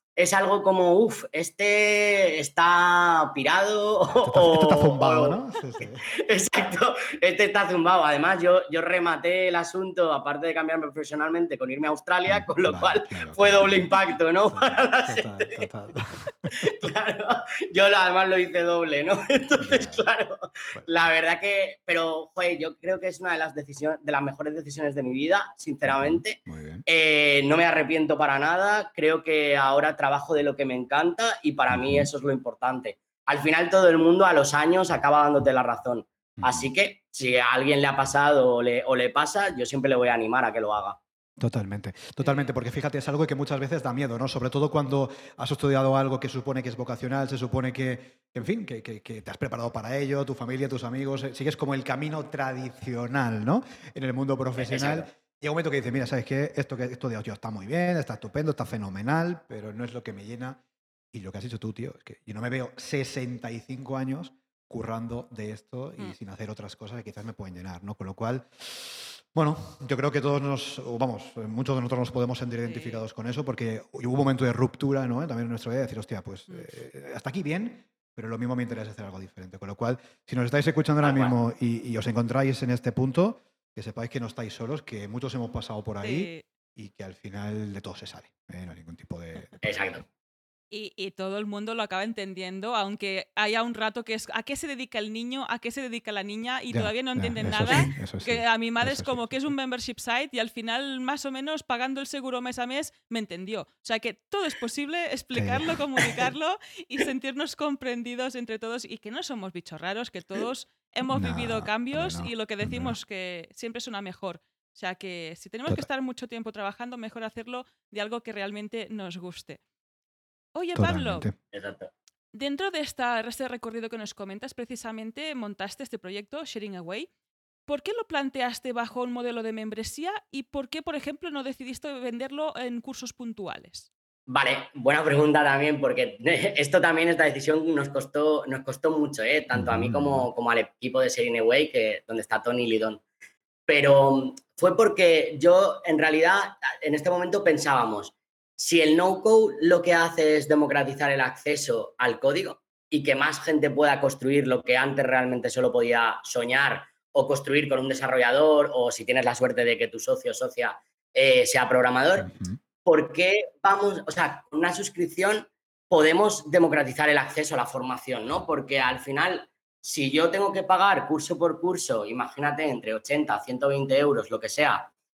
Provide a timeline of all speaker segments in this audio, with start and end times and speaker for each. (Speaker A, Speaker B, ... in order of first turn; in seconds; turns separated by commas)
Speaker A: 0.1-15.7, Speaker B: 4.1-6.0, Speaker B: 12.3-13.9, Speaker B: 14.5-16.7, Speaker A: 16.5-41.0, Speaker B: 19.6-20.0, Speaker B: 25.8-26.8, Speaker B: 31.7-32.1, Speaker B: 36.4-36.7, Speaker B: 41.4-60.6, Speaker C: 42.2-42.5, Speaker A: 54.5-55.1, Speaker B: 61.1-89.8, Speaker C: 72.7-73.0, Speaker A: 81.0-81.3, Speaker C: 86.0-86.4, Speaker A: 89.6-90.0, Speaker C: 90.7-119.6, Speaker B: 96.7-99.5, Speaker B: 105.3-105.7, Speaker B: 111.1-112.9, Speaker C: 120.5-121.3, Speaker B: 120.8-121.3, Speaker A: 121.5-121.9, Speaker C: 122.3-127.1, Speaker C: 127.7-133.9, Speaker A: 134.3-143.0, Speaker B: 139.5-140.2, Speaker A: 143.7-162.3, Speaker B: 162.2-162.6, Speaker A: 162.8-174.9